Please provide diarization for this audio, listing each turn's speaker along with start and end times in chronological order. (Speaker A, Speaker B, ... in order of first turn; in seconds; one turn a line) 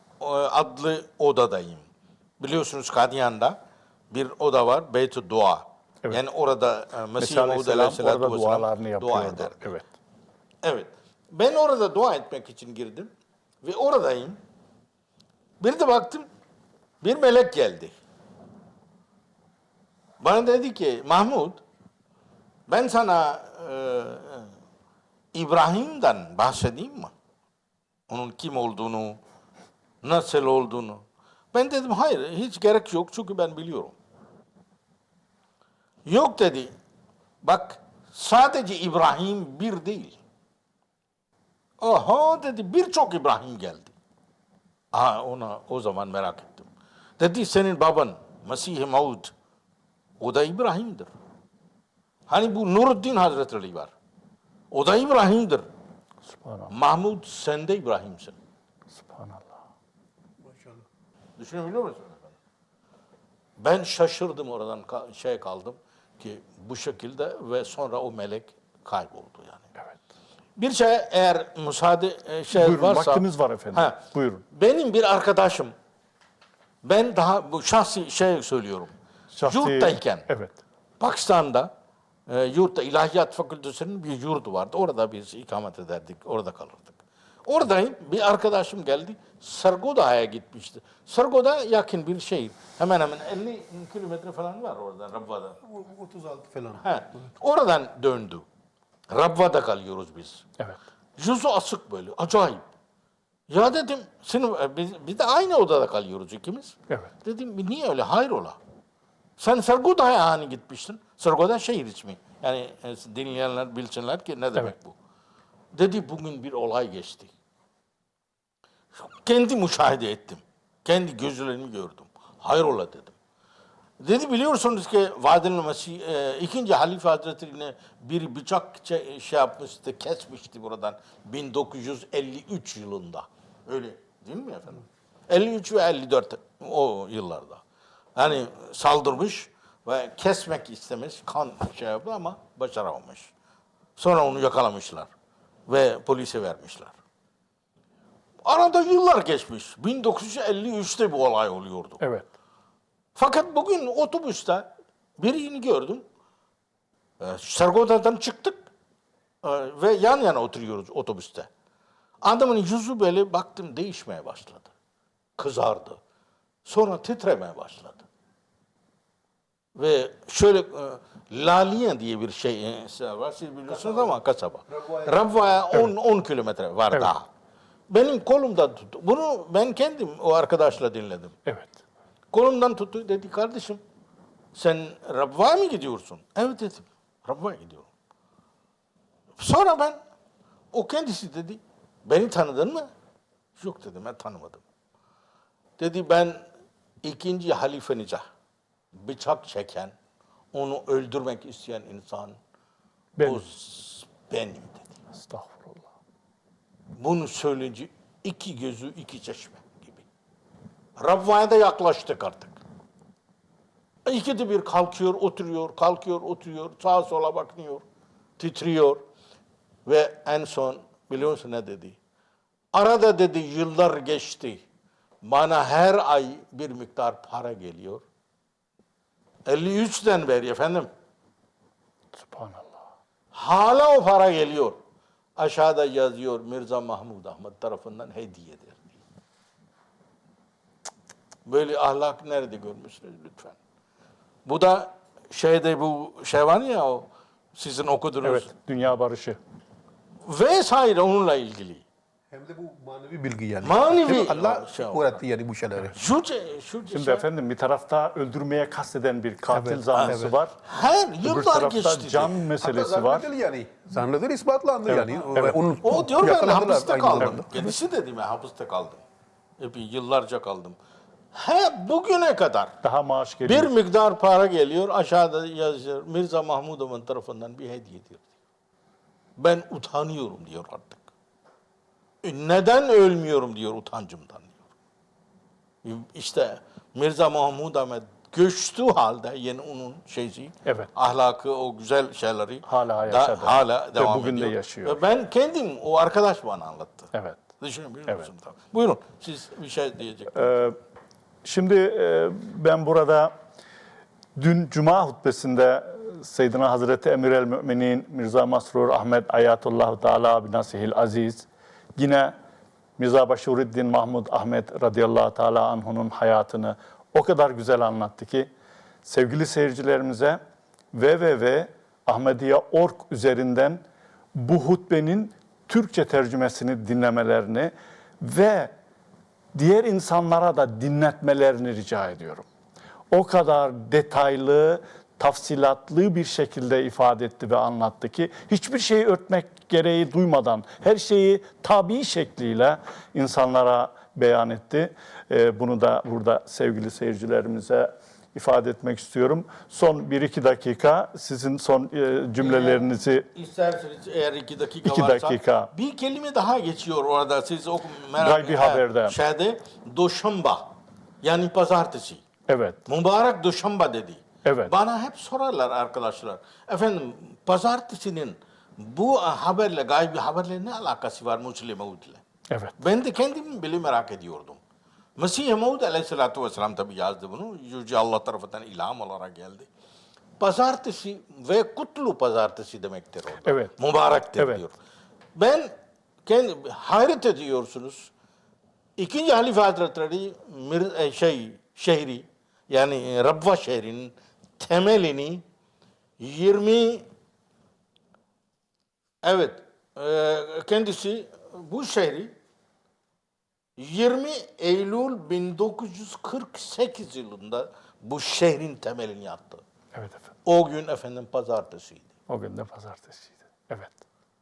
Speaker A: 0.2-1.9
Speaker A: 2.4-3.6
Speaker A: 4.1-9.8
Speaker B: 7.2-9.9
Speaker A: 10.6-13.1
Speaker A: 13.6-14.4
Speaker A: 15.6-16.3
Speaker A: 17.0-17.9
Speaker A: 20.2-21.6
Speaker A: 22.7-24.5
Speaker A: 25.3-27.1
Speaker A: 28.1-29.2
Speaker A: 30.0-31.0
Speaker A: 31.5-34.0
Speaker A: 36.1-36.7
Speaker A: 37.4-40.2
Speaker A: 41.8-43.9
Speaker A: 44.9-46.7
Speaker A: 47.2-49.3
Speaker A: 50.2-51.1
Speaker A: 52.3-53.9
Speaker A: 54.7-55.7
Speaker B: 56.3-56.7
Speaker A: 56.7-58.4
Speaker B: 58.9-59.6
Speaker C: 60.5-60.8
Speaker A: 61.4-62.3
Speaker A: 63.6-69.7
Speaker A: 70.6-75.7
Speaker B: 72.5-74.4
Speaker A: 76.8-78.9
Speaker B: 79.3-80.6
Speaker A: 79.4-80.3
Speaker A: 81.0-81.7
Speaker A: 82.3-95.6
Speaker C: 95.7-96.8
Speaker A: 96.8-98.5
Speaker A: 99.1-100.5
Speaker A: 101.2-102.7
Speaker A: 103.5-108.6
Speaker A: 109.4-115.0
Speaker A: 115.7-117.3
Speaker A: 119.0-123.2
Speaker A: 124.0-137.6
Speaker A: 138.2-143.3
Speaker A: 144.0-145.1
Speaker A: 145.7-146.9
Speaker A: 148.4-152.0
Speaker B: 152.0-152.3
Speaker A: 153.2-156.0
Speaker A: 157.2-158.7
Speaker A: 159.4-161.5
Speaker A: 162.2-164.7
Speaker A: 165.4-166.0
Speaker A: 166.7-168.1
Speaker A: 169.8-177.3
Speaker C: 173.8-174.2
Speaker C: 174.7-175.3
Speaker A: 177.9-181.4
Speaker B: 181.5-181.8
Speaker A: 182.3-183.8
Speaker A: 184.6-187.9
Speaker A: 189.4-190.0
Speaker A: 190.7-192.9
Speaker A: 193.6-194.6
Speaker A: 195.8-196.4
Speaker A: 197.0-198.2
Speaker A: 199.0-199.9
Speaker A: 200.5-202.4
Speaker B: 203.2-203.4
Speaker A: 203.2-204.9
Speaker B: 205.1-205.9
Speaker A: 207.0-210.1
Speaker A: 211.0-212.6
Speaker A: 214.1-217.8
Speaker A: 218.4-219.0
Speaker A: 219.9-222.0
Speaker A: 222.7-224.6
Speaker A: 225.2-228.0
Speaker A: 229.5-230.9
Speaker B: 232.2-232.8
Speaker A: 233.3-234.8
Speaker A: 235.4-238.9
Speaker A: 241.5-243.6
Speaker A: 244.5-248.5
Speaker B: 248.2-249.4
Speaker A: 250.2-251.8
Speaker C: 252.3-256.0
Speaker A: 253.6-255.2
Speaker A: 255.9-257.3
Speaker B: 256.9-260.6
Speaker C: 259.5-260.3
Speaker A: 259.9-262.4
Speaker B: 261.2-263.3
Speaker C: 262.6-267.5
Speaker B: 264.9-265.6
Speaker A: 265.8-269.0
Speaker B: 267.2-267.7
Speaker A: 269.6-270.8
Speaker A: 271.3-272.7
Speaker B: 272.8-273.7
Speaker A: 273.4-278.3
Speaker A: 279.4-281.1
Speaker A: 282.2-284.6
Speaker A: 285.8-300.6
Speaker B: 292.7-295.0
Speaker B: 297.1-297.4
Speaker B: 300.4-300.8
Speaker B: 301.4-303.3
Speaker B: 304.4-312.3
Speaker B: 313.0-318.5
Speaker B: 319.1-320.4
Speaker B: 320.9-323.8
Speaker B: 324.4-328.7
Speaker B: 329.6-332.5
Speaker B: 333.1-353.3
Speaker A: 352.4-360.7
Speaker B: 354.8-355.7
Speaker B: 358.2-359.2
Speaker A: 361.2-362.2
Speaker B: 362.5-362.8
Speaker A: 362.9-372.2
Speaker B: 364.4-364.7
Speaker A: 372.8-374.6
Speaker A: 375.2-379.7
Speaker A: 380.4-384.8
Speaker B: 383.4-383.7
Speaker B: 384.4-384.7
Speaker A: 385.4-385.7
Speaker A: 386.3-388.1
Speaker A: 389.0-395.4
Speaker A: 396.2-397.1
Speaker A: 399.2-402.3
Speaker A: 403.8-409.6
Speaker B: 409.9-410.3
Speaker A: 410.4-412.1
Speaker B: 412.3-414.0